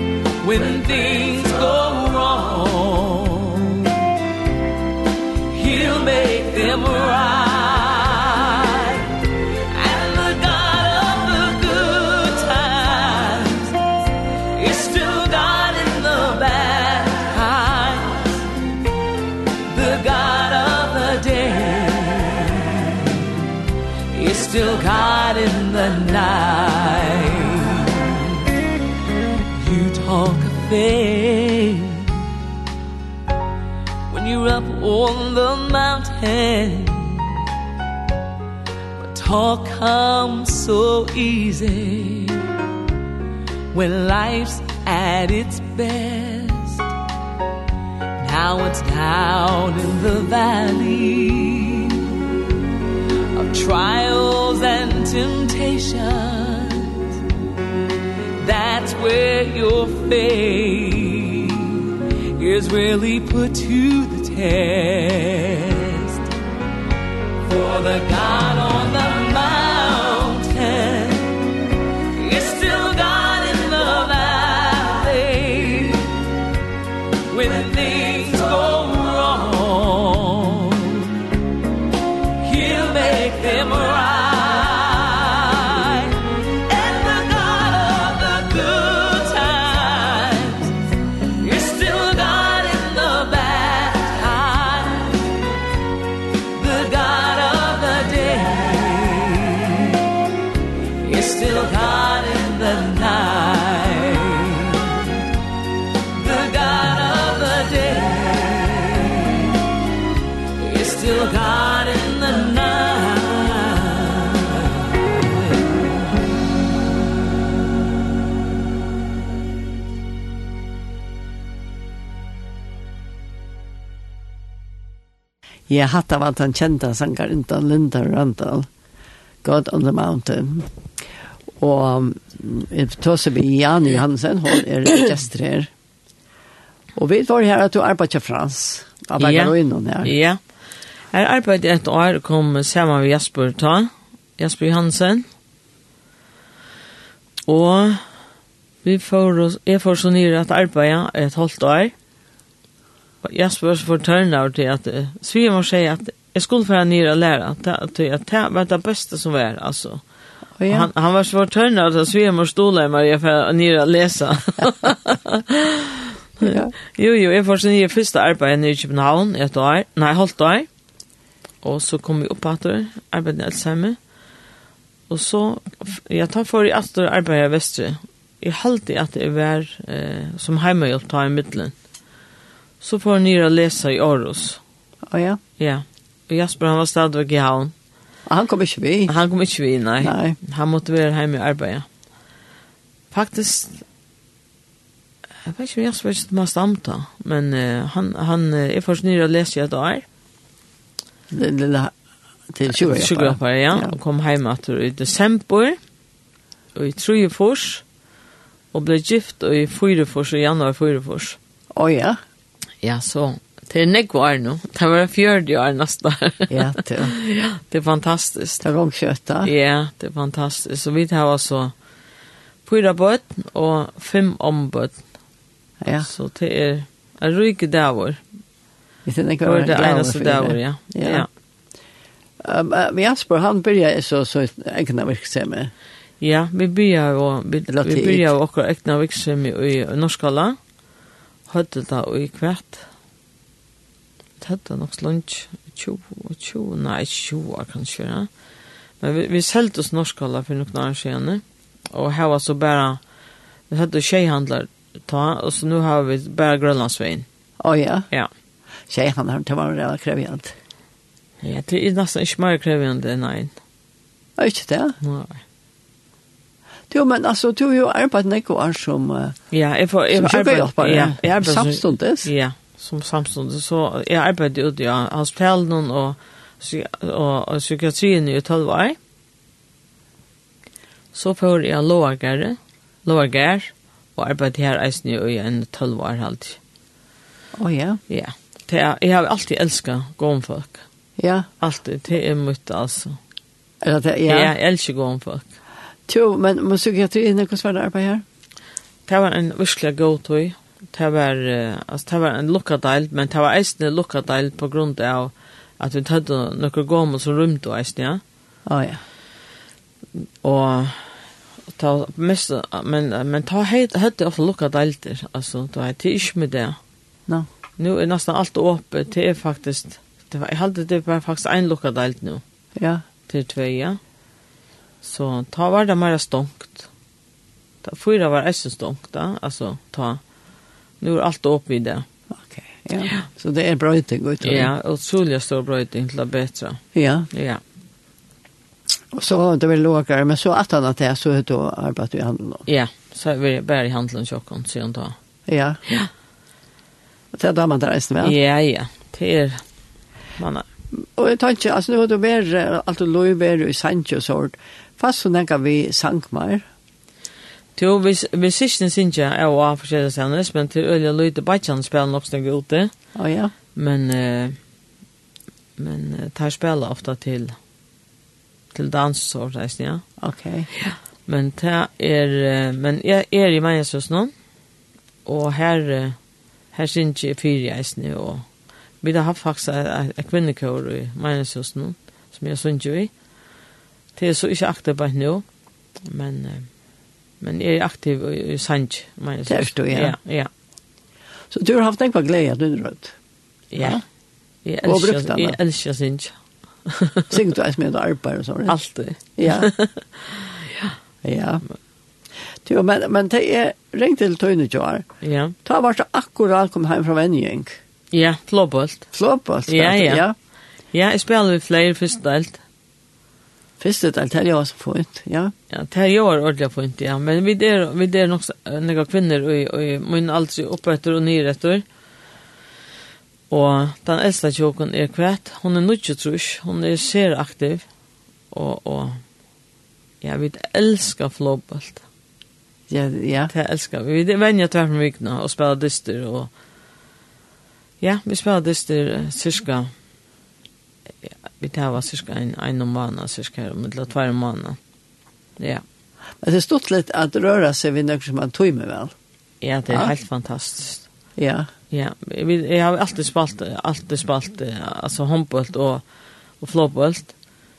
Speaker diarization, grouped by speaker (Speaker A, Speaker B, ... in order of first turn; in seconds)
Speaker A: 0.4-4.0, 5.5-13.8, 14.5-18.5, 19.7-23.3, 24.1-28.5, 29.6-32.1, 34.1-37.4, 39.0-42.5, 43.7-46.9, 48.2-52.2, 53.3-57.2, 58.4-66.3, 67.5-71.4, 72.1-76.2, 77.3-81.1, 82.4-90.8, 91.4-95.3, 96.5-100.0, 101.0-105.2, 106.1-109.6, 110.6-115.7
Speaker B: 125.7-128.7, 129.4-130.7, 131.6-135.7, 137.0-140.1, 160.6-160.9, 166.4-166.7, 185.1-185.4, 188.3-189.1, 190.0-190.4, 201.3-201.9, 202.5-203.9, 211.8-212.2, 216.5-217.2, 218.6-219.5, 225.8-226.1, 229.1-231.3, 232.4-235.7, 237.7-238.3, 257.6-258.1, 258.9-260.5, 264.4-265.0, 266.9-269.4, 270.1-272.3, 287.6-288.0, 291.2-291.5, 293.8-294.5, 296.1-298.2, 308.7-309.0, 322.8-323.0, 332.3-334.7, 336.9-337.3, 339.1-342.6, 345.5-345.8, 347.3-348.4, 351.0-356.6, 363.2-363.5, 370.2-370.7, 389.5-390.2, 391.5-393.1, 394.8-395.6, 397.3-398.8, 399.4-399.7, 401.2-401.6, 402.6-405.1, 405.6-407.8, 409.1-410.3, 413.8-415.5, 432.9-433.5, 446.4-449.1, 451.4-451.7
Speaker C: 139.2-140.4, 141.1-145.3, 147.5-148.0, 148.8-151.9, 153.2-160.0, 160.7-170.7, 171.6-174.0, 175.1-181.7, 182.8-184.6, 185.6-187.7, 189.1-191.9, 193.1-193.8, 195.4-200.1, 202.7-205.8, 206.8-207.8, 208.7-211.4, 212.8-218.7, 219.4-221.7, 222.7-225.0, 226.0-228.2, 229.4-231.3, 236.2-240.6, 241.5-242.9, 244.4-248.3, 249.0-253.0, 253.7-257.3, 261.4-263.5, 265.0-265.4, 269.5-279.0, 281.1-286.6, 288.1-290.8, 291.6-293.2, 294.3-295.5, 299.1-308.2, 310.4-311.1, 311.7-316.8, 317.8-322.4, 323.3-324.0, 325.0-326.9, 327.8-330.2, 331.0-332.1, 334.4-336.8, 337.3-337.6, 342.7-345.2, 348.2-349.6, 350.4-350.7, 357.8-362.9, 363.8-364.6, 365.8-367.6, 368.7-370.0, 370.8-374.3, 375.3-376.2, 376.7-378.4, 379.0-383.1, 384.1-385.4, 386.0-386.7, 387.4-390.5, 393.7-394.0, 394.6-396.4, 396.9-397.4, 398.7-400.9, 405.2-405.6, 408.1-409.1, 409.7-410.2, 410.9-412.6, 415.7-421.8, 423.5-427.9, 428.5-429.2, 430.2-432.0, 433.5-436.5, 438.0-439.9, 441.2-444.8, 449.6-451.1, 451.9-456.0, 456.6-457.3